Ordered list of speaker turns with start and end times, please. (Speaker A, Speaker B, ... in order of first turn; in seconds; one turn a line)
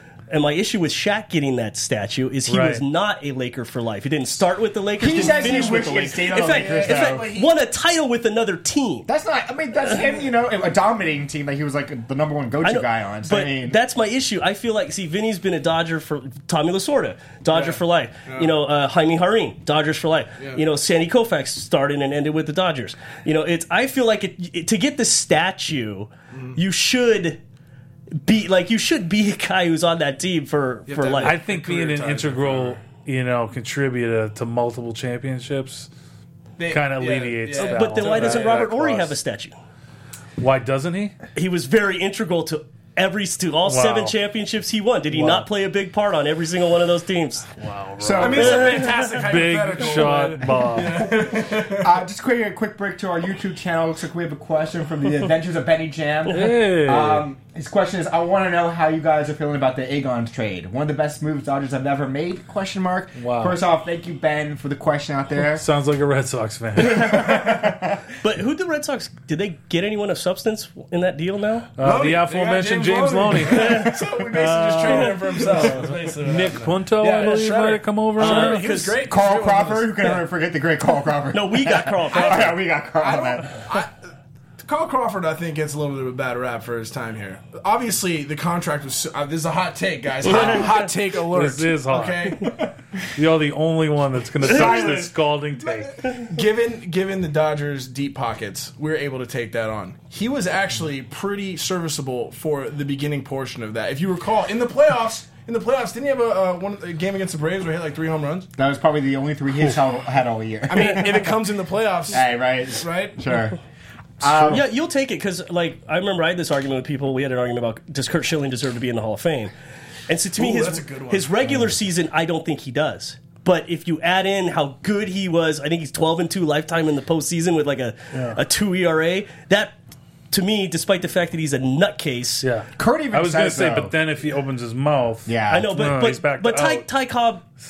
Speaker A: 0.3-9.1
Speaker B: 2.5-2.8
Speaker C: 5.0-7.6
Speaker D: 5.0-7.4
Speaker C: 9.1-13.8
Speaker A: 12.6-27.4
Speaker D: 17.5-18.5
Speaker D: 20.4-20.6
Speaker D: 26.3-26.6
Speaker A: 28.1-31.4
Speaker D: 30.9-32.8
Speaker B: 31.2-35.9
Speaker D: 36.6-39.1
Speaker B: 36.7-38.7
Speaker A: 37.5-39.5
Speaker B: 40.4-41.1
Speaker A: 41.4-47.5
Speaker B: 43.7-44.1
Speaker B: 45.1-45.5
Speaker B: 47.6-51.1
Speaker C: 48.0-48.7
Speaker D: 48.2-52.0
Speaker A: 48.4-49.0
Speaker C: 50.9-65.7
Speaker B: 56.3-57.3
Speaker B: 63.2-63.6
Speaker B: 65.6-67.2
Speaker C: 66.8-68.0
Speaker A: 66.9-67.4
Speaker A: 68.2-71.7
Speaker B: 71.8-78.7
Speaker D: 71.8-80.1
Speaker A: 78.2-79.0
Speaker C: 79.0-83.7
Speaker A: 81.3-82.6
Speaker D: 83.0-83.9
Speaker D: 84.6-92.6
Speaker B: 90.3-90.7
Speaker B: 91.3-92.5
Speaker C: 92.4-92.7
Speaker B: 93.2-96.1
Speaker C: 94.5-95.1
Speaker D: 94.5-95.1
Speaker D: 96.1-108.5
Speaker C: 108.6-111.5
Speaker D: 110.7-113.2
Speaker C: 112.1-113.6
Speaker C: 114.2-114.7
Speaker A: 114.4-119.5
Speaker A: 120.1-129.8
Speaker D: 120.3-121.3
Speaker B: 128.1-128.4
Speaker A: 130.3-132.5
Speaker B: 132.4-136.9
Speaker C: 132.8-133.9
Speaker C: 135.3-135.8
Speaker A: 135.5-137.4